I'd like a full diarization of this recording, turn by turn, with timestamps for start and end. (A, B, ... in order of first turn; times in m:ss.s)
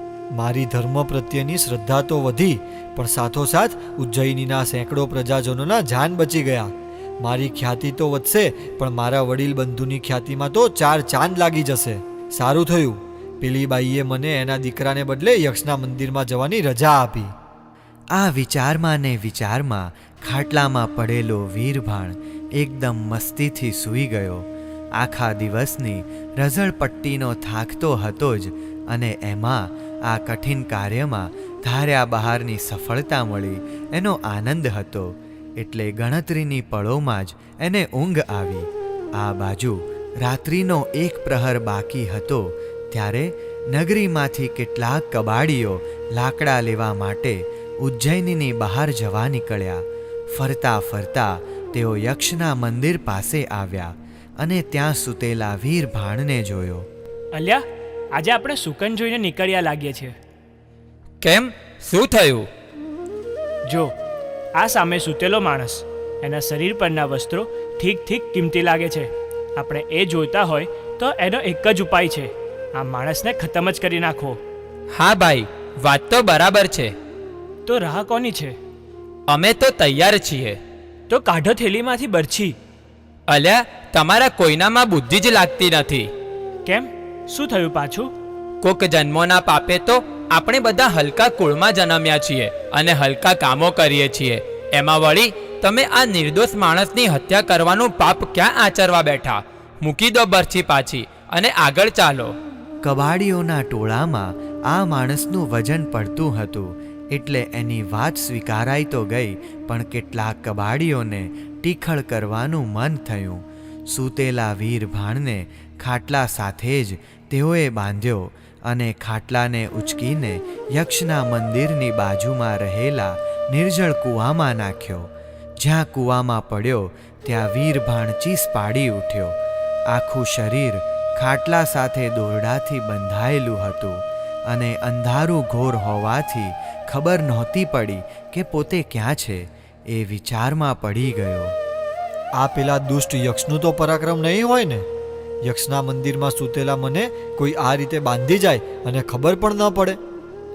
0:00.3-0:17.3 A
0:18.2-0:24.5 B
0:25.0-0:56.9 B
0:57.3-1:00.2 C
1:01.2-1:02.5 D
1:03.7-1:03.9 C
1:04.6-1:14.4 C
1:14.9-1:16.9 D
1:17.7-1:18.6 C
1:19.3-1:20.6 D
1:21.1-1:22.6 C
1:23.3-1:26.1 D
1:26.6-1:28.1 C
1:28.6-1:42.4 D
1:42.8-2:09.4 B
2:09.9-2:21.6 B
2:22.4-2:24.8 A
2:25.4-2:30.0 A